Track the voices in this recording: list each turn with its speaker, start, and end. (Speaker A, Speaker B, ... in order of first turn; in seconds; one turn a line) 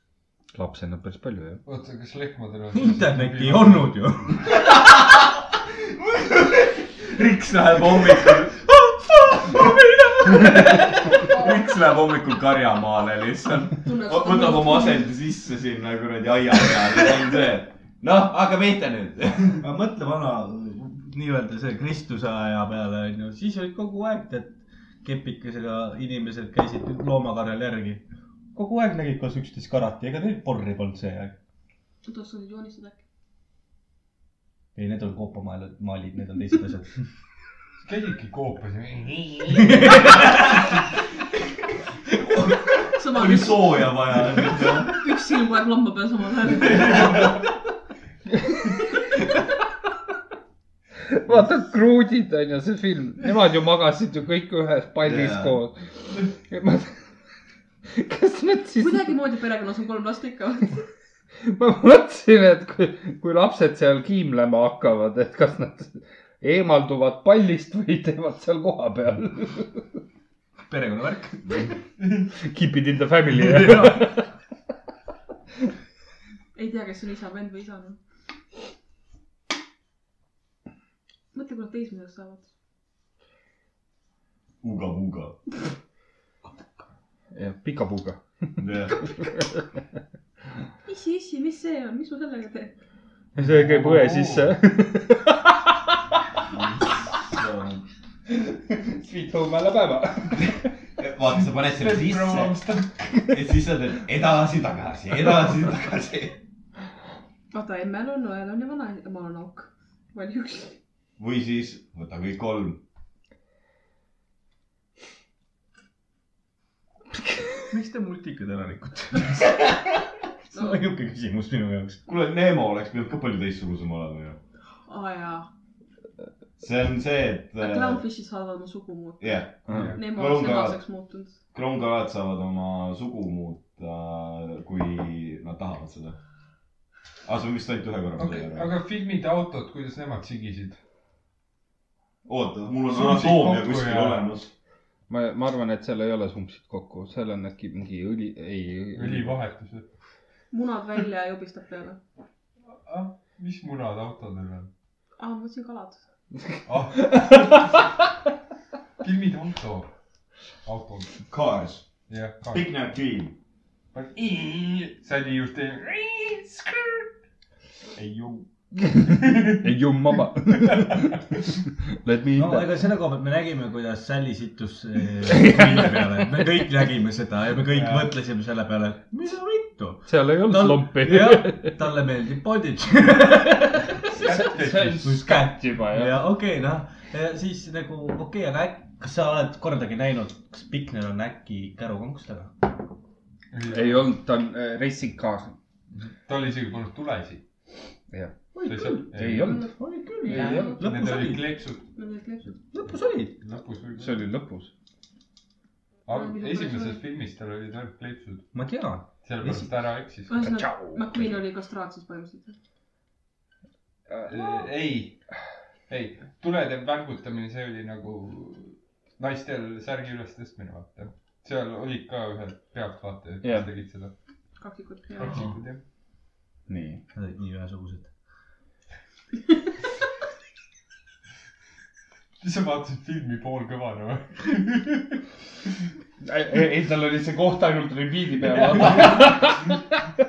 Speaker A: 0.5-1.6
Speaker B: 1.7-3.9
Speaker C: 2.7-4.4
Speaker D: 4.5-19.6
Speaker C: 8.0-8.5
Speaker E: 13.8-15.1
Speaker C: 19.6-28.0
Speaker C: 28.5-31.4
Speaker E: 32.0-33.0
Speaker C: 34.8-36.9
Speaker B: 37.8-40.2
Speaker C: 39.5-40.5
Speaker D: 42.3-45.0
Speaker E: 43.0-44.0
Speaker E: 44.8-47.3
Speaker A: 51.1-57.0
Speaker D: 55.0-55.6
Speaker A: 57.9-59.1
Speaker E: 58.8-60.9
Speaker A: 61.4-69.8
Speaker C: 70.7-71.7
Speaker A: 72.4-74.2
Speaker C: 73.3-74.1
Speaker E: 76.5-78.0
Speaker E: 81.3-82.5
Speaker D: 84.6-85.4
Speaker A: 87.3-88.6
Speaker D: 88.6-89.0
Speaker E: 90.9-92.7
Speaker B: 93.3-94.6
Speaker A: 93.4-95.9
Speaker D: 96.5-97.8
Speaker A: 98.3-100.6
Speaker D: 100.4-106.4
Speaker B: 101.4-103.2
Speaker E: 107.5-110.8
Speaker D: 111.2-112.8
Speaker C: 117.7-119.6
Speaker C: 120.5-122.0
Speaker E: 120.5-120.8
Speaker D: 122.0-124.4
Speaker E: 124.9-125.5
Speaker D: 126.6-128.1
Speaker E: 127.6-129.4
Speaker D: 129.2-130.8
Speaker A: 129.7-129.9
Speaker B: 129.7-130.0
Speaker E: 129.9-131.4
Speaker D: 131.5-136.2
Speaker D: 137.3-138.7
Speaker B: 138.2-140.8
Speaker D: 142.2-144.5
Speaker B: 142.9-144.3
Speaker A: 145.1-149.4
Speaker B: 148.9-149.9
Speaker E: 150.5-152.0
Speaker B: 152.7-154.7
Speaker E: 155.2-156.0
Speaker B: 156.7-157.7
Speaker B: 159.0-159.9
Speaker B: 160.6-161.2
Speaker D: 161.3-161.9
Speaker B: 162.1-162.7
Speaker D: 162.5-163.3
Speaker B: 163.9-167.1
Speaker B: 167.9-169.7
Speaker A: 168.9-171.2
Speaker A: 171.9-172.8
Speaker C: 172.3-183.9
Speaker A: 175.3-176.3
Speaker A: 180.1-181.8
Speaker B: 184.0-185.1
Speaker A: 184.2-186.2
Speaker C: 184.8-192.7
Speaker B: 193.5-194.1
Speaker A: 193.7-195.5
Speaker B: 195.9-197.4
Speaker C: 198.5-201.5
Speaker B: 198.7-199.5
Speaker A: 198.9-199.7
Speaker E: 199.4-199.7
Speaker E: 200.2-200.9
Speaker A: 200.3-200.8
Speaker B: 200.3-201.8
Speaker E: 201.9-202.6
Speaker C: 202.7-203.3
Speaker B: 203.4-204.2
Speaker A: 204.0-204.7
Speaker B: 206.1-208.5
Speaker E: 206.1-207.0
Speaker C: 208.5-209.7
Speaker B: 209.2-210.3
Speaker E: 210.3-212.6
Speaker A: 210.4-211.4
Speaker A: 214.1-214.6
Speaker B: 214.3-215.2
Speaker B: 215.9-224.1
Speaker A: 223.4-223.7
Speaker E: 224.6-225.5
Speaker B: 225.2-225.8
Speaker A: 226.7-227.0
Speaker C: 227.1-228.1
Speaker B: 232.4-235.2
Speaker A: 236.2-239.8
Speaker B: 238.4-239.8